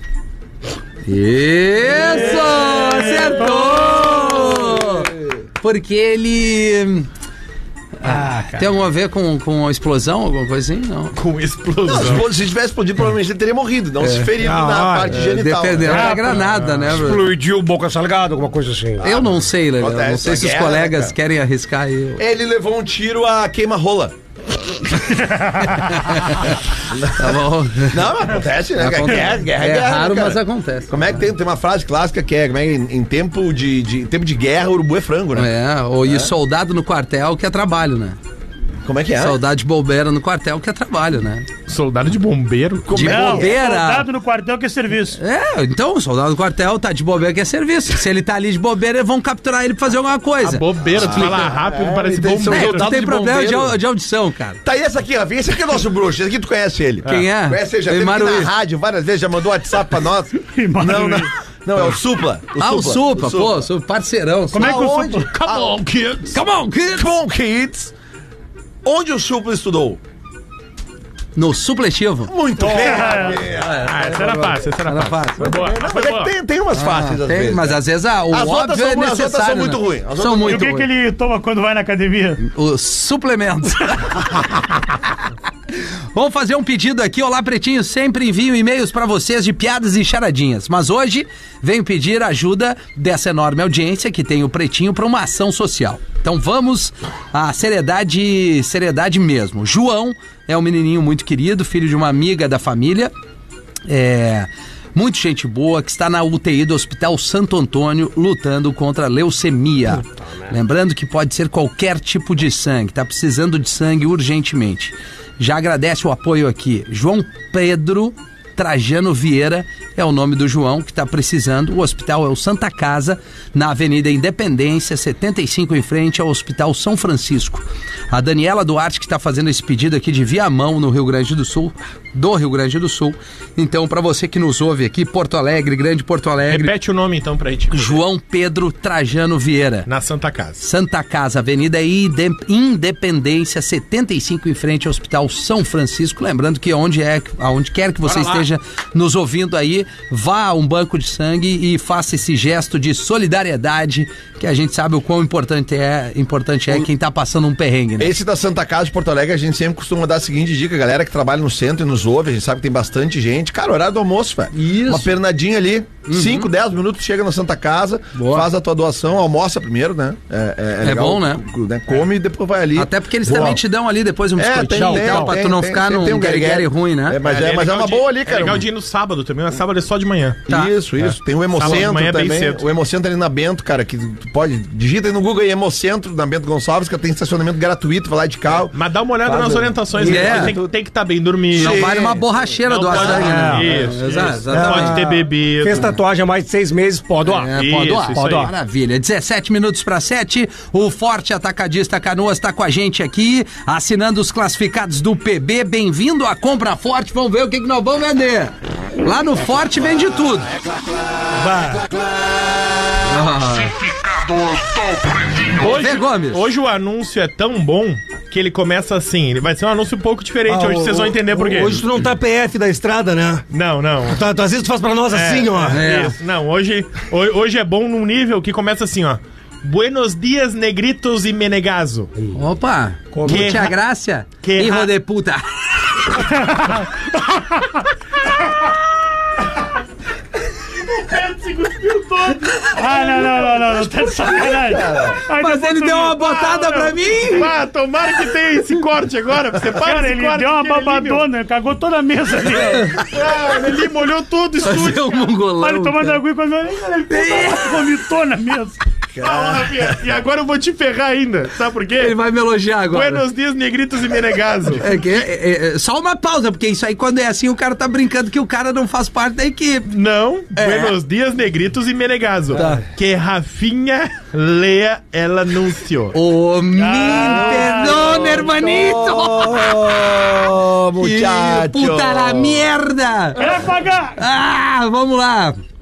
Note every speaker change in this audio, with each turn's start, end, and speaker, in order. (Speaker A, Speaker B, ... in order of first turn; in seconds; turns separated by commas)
Speaker A: 1.1-7.1, Speaker B: 2.1-2.9, Speaker C: 2.3-3.8, Speaker B: 4.5-5.1, Speaker A: 8.0-11.1, Speaker D: 11.2-12.3, Speaker B: 11.9-16.4, Speaker A: 14.0-14.3, Speaker E: 14.4-15.3, Speaker A: 15.1-17.3, Speaker E: 15.8-19.1, Speaker D: 16.4-16.9, Speaker B: 19.0-21.2, Speaker A: 19.0-22.2, Speaker B: 22.2-24.1, Speaker A: 25.6-26.6, Speaker B: 26.9-35.5, Speaker A: 27.1-28.1, Speaker A: 28.8-31.0, Speaker A: 35.4-38.2, Speaker B: 36.0-36.3, Speaker B: 38.9-39.4, Speaker A: 39.2-41.5, Speaker D: 41.7-42.9, Speaker B: 42.9-43.6, Speaker A: 42.9-44.1, Speaker C: 43.0-45.2, Speaker A: 45.2-51.5, Speaker D: 50.4-53.0, Speaker B: 50.9-53.8, Speaker A: 52.4-54.6, Speaker B: 54.6-63.7, Speaker A: 57.1-58.5, Speaker C: 60.5-61.3, Speaker A: 62.6-64.9, Speaker C: 64.5-65.3, Speaker B: 64.6-65.8, Speaker D: 65.3-66.4, Speaker A: 66.3-67.1, Speaker B: 66.9-67.9, Speaker B: 68.8-70.0, Speaker A: 71.4-75.5, Speaker B: 72.3-74.3, Speaker C: 72.6-73.4, Speaker D: 73.8-76.3, Speaker B: 75.4-80.7, Speaker A: 76.8-80.9, Speaker C: 80.5-82.4, Speaker A: 82.4-85.2, Speaker A: 85.7-103.1, Speaker A: 103.9-136.7, Speaker D: 136.5-138.0, Speaker A: 137.7-139.9, Speaker D: 139.9-140.6, Speaker A: 140.6-158.1, Speaker D: 148.1-148.4, Speaker B: 158.0-173.6, Speaker A: 164.6-165.1, Speaker A: 166.1-166.5, Speaker A: 168.2-168.5, Speaker A: 170.8-171.4, Speaker A: 172.8-177.2, Speaker B: 174.4-178.6, Speaker E: 174.8-175.3, Speaker D: 177.2-180.4, Speaker B: 180.5-190.7, Speaker D: 181.5-182.7, Speaker D: 188.7-192.0, Speaker A: 190.0-190.6, Speaker E: 190.0-190.4, Speaker B: 191.5-192.2, Speaker A: 191.5-195.0, Speaker D: 192.7-195.9, Speaker E: 192.9-193.7, Speaker E: 194.5-197.5, Speaker A: 197.3-210.5, Speaker D: 197.4-198.5, Speaker E: 198.1-198.5, Speaker E: 211.4-211.9, Speaker A: 213.1-213.8, Speaker D: 215.5-221.8, Speaker A: 215.6-216.4, Speaker E: 220.5-223.4, Speaker D: 223.5-224.2, Speaker E: 224.1-225.9, Speaker D: 225.1-232.1, Speaker A: 225.7-226.2, Speaker A: 232.3-236.3, Speaker E: 233.1-233.6, Speaker D: 233.2-233.8, Speaker D: 234.4-234.9, Speaker D: 241.2-242.2, Speaker C: 242.6-247.0, Speaker A: 242.8-243.6, Speaker B: 244.7-245.2, Speaker A: 245.3-247.5, Speaker D: 247.3-251.3, Speaker C: 249.8-253.0, Speaker D: 253.1-255.2, Speaker A: 254.6-256.2, Speaker C: 255.6-258.8, Speaker A: 257.1-257.9, Speaker B: 259.1-259.9, Speaker D: 259.2-262.2, Speaker A: 262.0-263.2, Speaker D: 262.9-264.9, Speaker A: 264.8-269.9, Speaker D: 269.9-276.2, Speaker A: 270.6-270.9, Speaker A: 272.5-272.9, Speaker A: 276.1-279.8, Speaker C: 276.8-278.4, Speaker B: 277.0-282.7, Speaker A: 281.0-283.6, Speaker C: 283.4-284.2, Speaker A: 284.2-285.6